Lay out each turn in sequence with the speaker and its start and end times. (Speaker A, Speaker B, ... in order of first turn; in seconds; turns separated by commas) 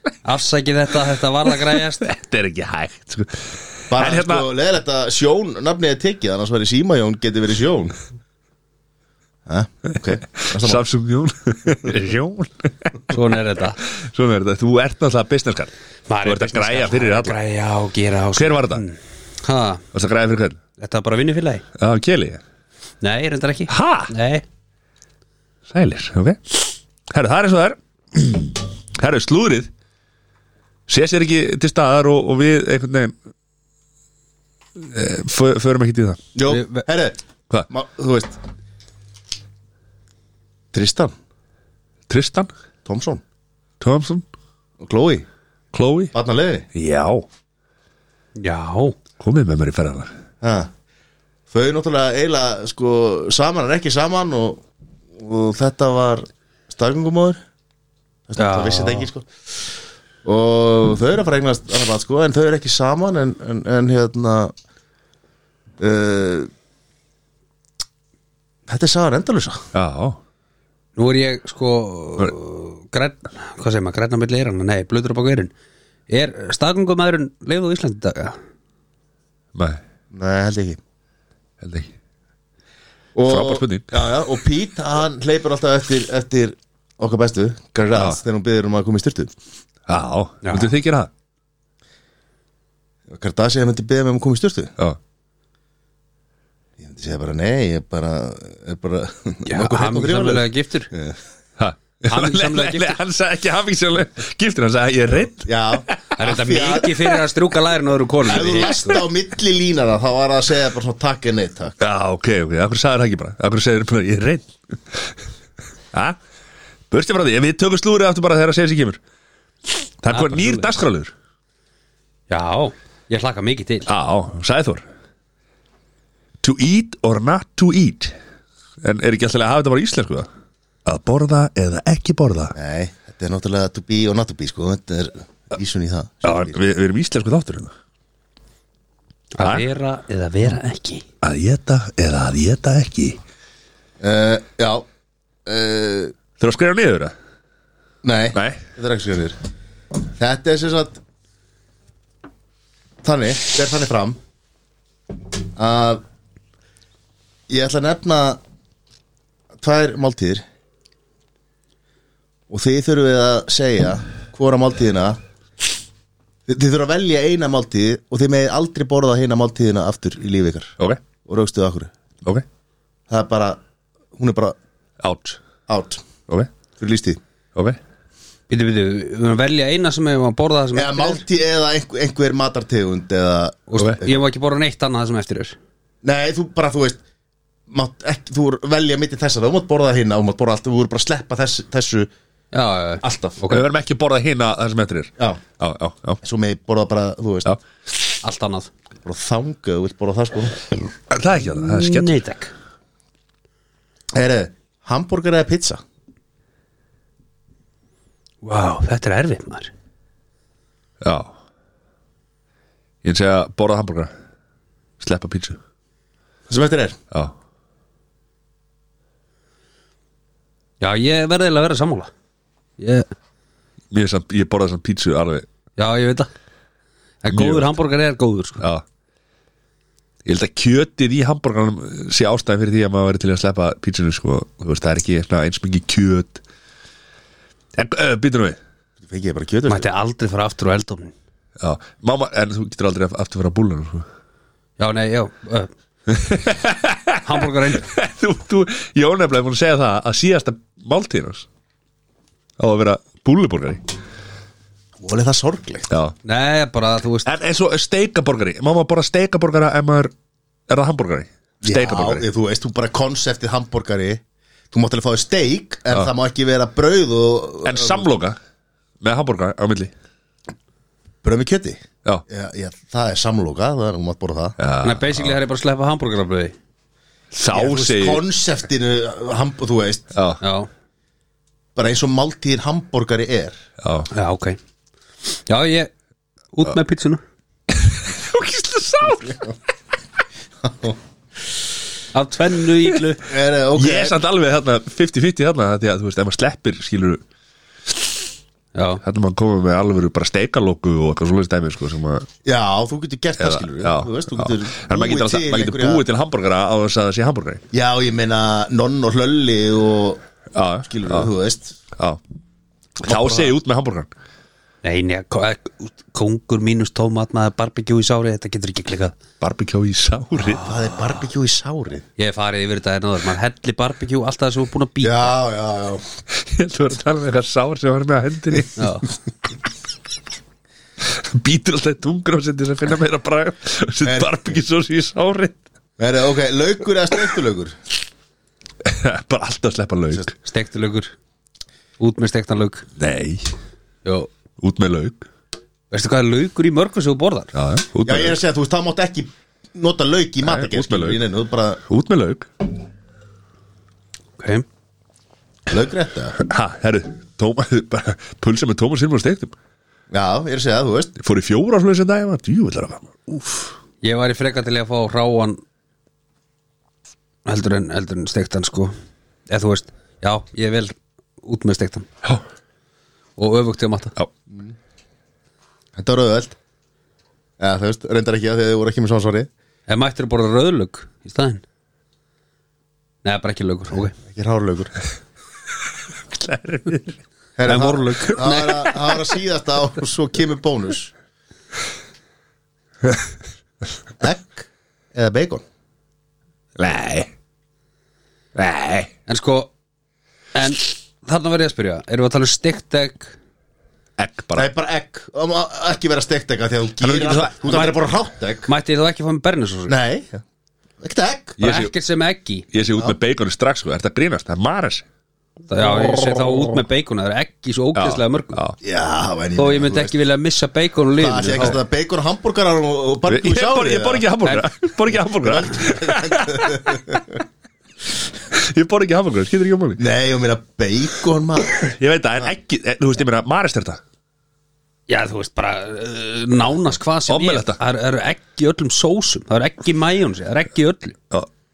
Speaker A: 0.2-2.2, Speaker B: 1.5-4.5, Speaker C: 3.9-8.0, Speaker C: 9.5-10.8, Speaker B: 10.4-13.2, Speaker A: 13.1-13.8, Speaker B: 13.8-15.7, Speaker A: 16.1-19.9, Speaker B: 16.2-17.4, Speaker B: 18.4-18.8, Speaker B: 19.9-20.6, Speaker A: 20.8-21.6, Speaker B: 21.8-22.4, Speaker A: 23.0-24.4, Speaker B: 23.7-24.1, Speaker B: 25.7-29.7, Speaker B: 30.9-33.1, Speaker B: 34.8-36.2, Speaker C: 36.4-37.2, Speaker A: 36.5-36.9, Speaker C: 37.7-38.4, Speaker C: 40.7-41.1, Speaker B: 42.1-42.5, Speaker C: 42.9-43.2, Speaker B: 43.8-44.2, Speaker C: 44.8-45.3, Speaker B: 45.7-46.1, Speaker C: 46.1-46.7, Speaker B: 46.8-47.3, Speaker A: 48.4-49.0, Speaker B: 49.2-50.1, Speaker C: 50.4-50.7, Speaker C: 51.5-54.6, Speaker C: 55.2-57.4, Speaker C: 58.3-59.7, Speaker A: 58.4-59.1, Speaker C: 60.2-64.5, Speaker C: 65.8-66.5, Speaker C: 68.7-69.6, Speaker B: 69.7-70.2, Speaker A: 71.0-75.5, Speaker A: 76.1-78.4, Speaker B: 79.5-79.8, Speaker C: 80.1-80.8, Speaker B: 81.6-81.9, Speaker C: 83.2-89.3, Speaker B: 83.3-83.9, Speaker B: 88.0-88.2, Speaker B: 89.9-91.1, Speaker A: 90.4-90.7, Speaker C: 93.1-94.7, Speaker C: 96.8-101.2, Speaker A: 99.5-100.9, Speaker B: 101.6-106.2, Speaker A: 102.1-103.0, Speaker C: 105.4-106.9, Speaker A: 106.2-109.0, Speaker C: 108.2-111.8, Speaker B: 111.8-115.1, Speaker B: 116.9-119.0, Speaker B: 119.7-121.1, Speaker A: 120.1-120.8, Speaker A: 122.3-123.9, Speaker B: 123.9-124.8, Speaker B: 126.4-128.2, Speaker B: 128.8-130.3, Speaker B: 130.8-132.5, Speaker C: 132.5-136.6, Speaker B: 136.2-137.7, Speaker A: 139.3-141.1, Speaker B: 139.4-139.7, Speaker B: 141.2-143.2, Speaker C: 144.0-144.8, Speaker C: 145.5-146.2, Speaker B: 146.4-147.1, Speaker C: 148.0-149.4, Speaker B: 148.3-148.6, Speaker C: 150.2-151.0, Speaker C: 153.0-154.2, Speaker C: 155.6-156.0, Speaker C: 157.5-158.4, Speaker C: 159.6-160.4, Speaker C: 162.5-165.2, Speaker C: 166.5-171.9, Speaker C: 173.1-173.6, Speaker C: 174.2-174.6, Speaker B: 175.0-175.4, Speaker C: 175.7-176.1, Speaker C: 176.8-177.2, Speaker A: 178.5-181.2, Speaker C: 180.7-184.1, Speaker A: 183.7-185.6, Speaker C: 186.0-187.0, Speaker C: 187.7-192.1, Speaker A: 192.5-193.7, Speaker C: 193.0-193.4, Speaker B: 193.5-196.2, Speaker C: 196.2-197.5, Speaker A: 198.2-198.7, Speaker C: 199.1-200.6, Speaker B: 201.1-202.2, Speaker A: 201.4-202.5, Speaker C: 204.1-205.8, Speaker A: 208.4-209.7, Speaker B: 211.0-211.3, Speaker B: 213.0-214.1, Speaker B: 215.0-215.6, Speaker C: 216.5-217.0, Speaker A: 220.8-222.1, Speaker A: 222.8-223.1, Speaker B: 223.9-225.5, Speaker A: 225.8-226.3, Speaker A: 227.2-228.6, Speaker B: 227.3-227.7, Speaker B: 230.2-236.4, Speaker B: 237.8-238.6, Speaker C: 239.0-239.8, Speaker A: 239.7-241.1, Speaker B: 241.6-244.1, Speaker A: 244.8-245.7, Speaker B: 246.1-251.5, Speaker A: 247.2-247.9, Speaker B: 252.6-253.8, Speaker C: 255.0-255.9, Speaker B: 255.9-256.1, Speaker A: 256.2-257.3, Speaker B: 257.3-260.1, Speaker B: 260.7-262.2, Speaker C: 261.6-268.1, Speaker B: 267.6-268.4, Speaker B: 269.0-269.9, Speaker C: 271.2-274.6, Speaker B: 274.6-275.4, Speaker A: 274.8-276.6, Speaker B: 277.3-278.2, Speaker C: 277.5-280.1, Speaker B: 280.1-280.4, Speaker A: 280.4-280.7, Speaker C: 281.8-283.6, Speaker B: 283.8-284.1, Speaker A: 284.1-284.6, Speaker A: 285.3-285.9, Speaker A: 286.5-287.2, Speaker B: 287.7-289.5, Speaker C: 290.6-291.0, Speaker A: 292.1-293.2, Speaker C: 293.2-294.2, Speaker B: 293.8-297.2, Speaker A: 298.8-299.0, Speaker B: 299.0-302.3, Speaker C: 302.4-306.0, Speaker B: 303.4-307.6, Speaker C: 307.7-310.2, Speaker B: 310.5-311.3, Speaker C: 310.9-311.8, Speaker B: 313.0-314.1, Speaker C: 313.1-313.5, Speaker A: 314.8-319.2, Speaker B: 319.4-320.6, Speaker A: 320.4-320.7, Speaker C: 320.6-322.0, Speaker A: 322.2-325.3, Speaker C: 325.0-326.1, Speaker B: 326.3-328.9, Speaker A: 328.8-329.1, Speaker B: 331.0-335.6, Speaker C: 334.0-334.3, Speaker C: 336.0-337.8, Speaker B: 338.8-340.3, Speaker A: 340.4-341.1, Speaker A: 342.0-342.9, Speaker B: 343.0-343.5, Speaker A: 344.1-344.3, Speaker B: 344.6-345.3, Speaker A: 345.9-347.5, Speaker B: 347.5-348.4, Speaker C: 348.1-351.8, Speaker B: 350.4-351.2, Speaker B: 351.9-352.5, Speaker A: 354.4-354.7, Speaker C: 355.7-356.4, Speaker B: 356.4-359.5, Speaker C: 360.1-361.1, Speaker B: 361.2-363.8, Speaker A: 364.0-365.6, Speaker A: 367.5-368.9, Speaker A: 369.5-372.1, Speaker A: 373.4-374.1, Speaker C: 376.0-376.6, Speaker C: 377.6-379.5, Speaker A: 379.9-381.6, Speaker A: 383.2-384.1, Speaker C: 384.3-384.9, Speaker B: 386.3-387.2, Speaker C: 387.6-391.1, Speaker A: 387.7-388.6, Speaker B: 388.4-389.1, Speaker C: 394.2-395.6, Speaker B: 396.8-397.3, Speaker B: 398.6-399.1, Speaker A: 399.3-399.7, Speaker A: 400.6-403.4, Speaker B: 404.2-404.7, Speaker C: 404.6-408.7, Speaker B: 407.0-407.9, Speaker A: 408.7-409.9, Speaker C: 409.9-410.4, Speaker C: 411.0-411.6, Speaker B: 411.6-411.9, Speaker A: 411.6-412.7, Speaker B: 412.7-415.1, Speaker A: 415.7-418.6, Speaker B: 415.9-416.6, Speaker B: 417.9-418.8, Speaker C: 418.8-420.1, Speaker A: 419.6-421.8, Speaker C: 421.2-424.3, Speaker B: 423.3-427.2, Speaker C: 425.3-427.4, Speaker B: 428.5-430.0, Speaker C: 430.0-431.9, Speaker B: 431.8-434.0, Speaker A: 435.1-441.2, Speaker B: 437.3-437.8